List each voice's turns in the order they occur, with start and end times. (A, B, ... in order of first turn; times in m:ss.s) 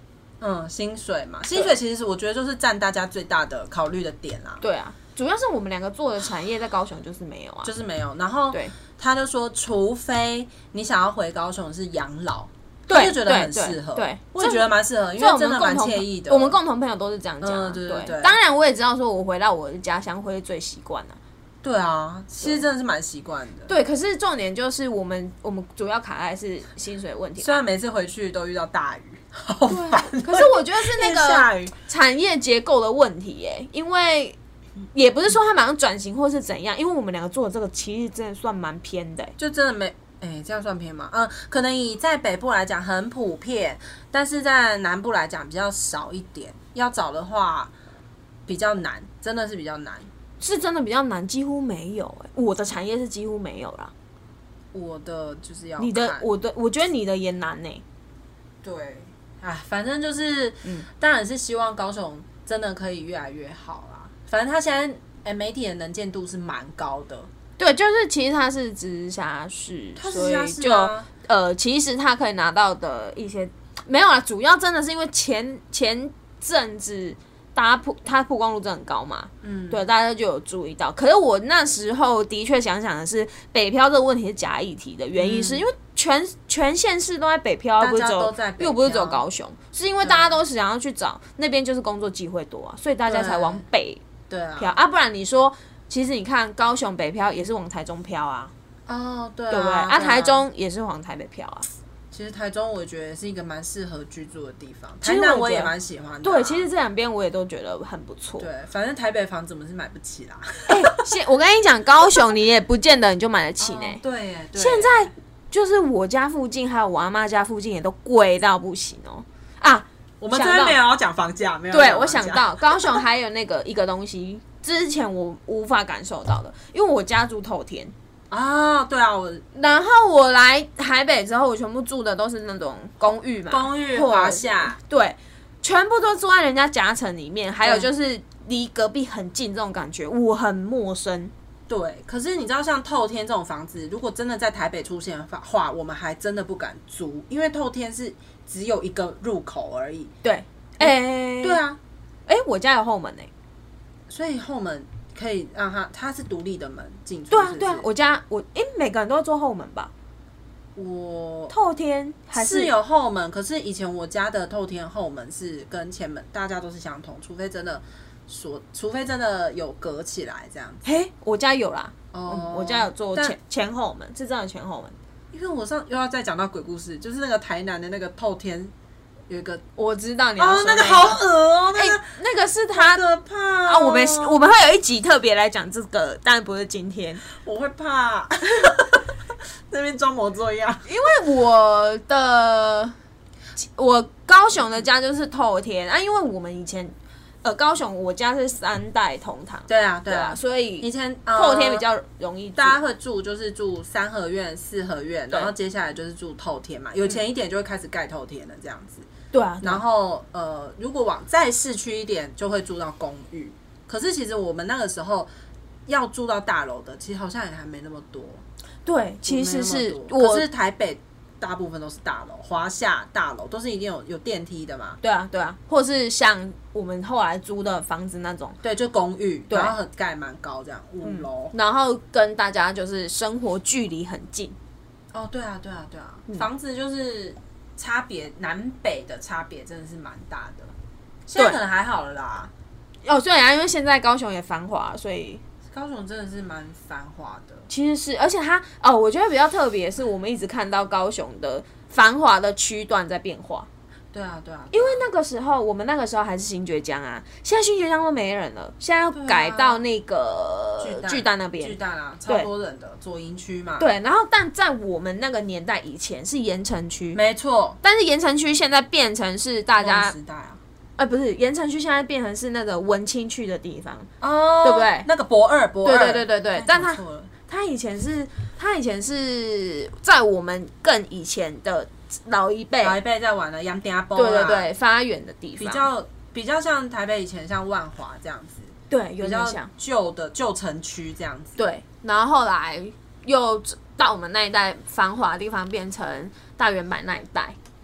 0:00.4-0:04.6 A
0:04.6-0:07.7 B
0:07.6-0:16.6 A
0:12.9-0:21.2 B
0:17.4-0:18.4 A
0:21.6-0:23.7 A
0:23.7-0:27.6 B
0:27.4-0:31.7 A
0:29.7-0:34.4 B
0:34.9-0:39.4 B
0:39.4-0:47.7 A
0:48.5-0:50.1 A
0:50.4-0:53.9 B
0:54.7-0:56.3 A
0:55.8-0:57.8 B
0:58.6-1:07.3 A
1:07.6-1:34.0 B
1:10.0-1:11.1 A
1:19.4-1:19.8 A
1:25.2-1:25.6 A
1:27.8-1:29.2 A
1:30.0-1:30.4 A
1:33.1-1:33.6 A
1:34.3-1:34.8 A
1:34.6-1:38.5 B
1:38.9-1:40.5 A
1:39.5-1:41.7 B
1:42.1-1:46.7 A
1:45.0-1:48.5 B
1:48.4-1:51.0 A
1:50.7-1:54.0 B
1:53.6-1:55.1 A
1:54.6-2:00.8 B
2:00.2-2:03.0 A
2:01.7-2:07.9 B
2:08.3-2:09.4 A
2:09.6-2:21.3 B
2:13.5-2:14.8 A
2:17.6-2:17.9 A
2:21.7-2:30.1 A
2:30.2-2:31.6 B
2:30.8-2:31.8 A
2:32.3-2:33.3 B
2:34.1-2:37.9 A
2:37.3-2:39.9 B
2:40.8-2:41.5 A
2:41.5-2:42.7 B
2:42.3-2:50.8 A
2:50.8-2:55.0 B
2:52.1-2:53.4 A
2:55.3-2:58.7 A
2:59.3-2:59.6 A
2:59.8-3:01.2 B
3:00.4-3:02.1 A
3:01.8-3:03.0 B
3:02.7-3:04.4 A
3:03.7-3:07.2 B
3:07.3-3:09.1 A
3:09.7-3:10.9 A
3:10.9-3:13.0 B
3:13.6-3:22.8 B
3:19.7-3:21.8 A
3:22.6-3:29.1 A
3:29.3-3:29.8 B
3:29.6-3:35.3 A
3:35.9-3:38.4 A
3:38.9-3:40.5 B
3:39.2-3:45.0 A
3:45.0-3:48.6 B
3:48.6-3:51.5 A
3:49.5-3:49.8 B
3:51.0-3:54.6 B
3:55.1-4:00.7 A
4:01.3-4:02.5 A
4:03.0-4:05.4 B
4:05.7-4:07.7 A
4:07.7-4:13.7 B
4:14.1-4:15.1 A
4:14.7-4:21.8 B
4:19.1-4:19.8 A
4:20.8-4:23.9 A
4:23.8-4:27.2 B
4:27.1-4:27.8 A
4:27.8-4:30.2 B
4:29.8-4:30.6 A
4:31.0-4:34.1 B
4:34.2-4:37.3 A
4:34.6-4:35.1 B
4:35.8-4:43.0 B
4:42.8-4:44.7 A
4:44.2-4:45.9 B
4:45.6-4:51.6 A
4:48.9-4:49.7 B
4:51.6-4:57.6 B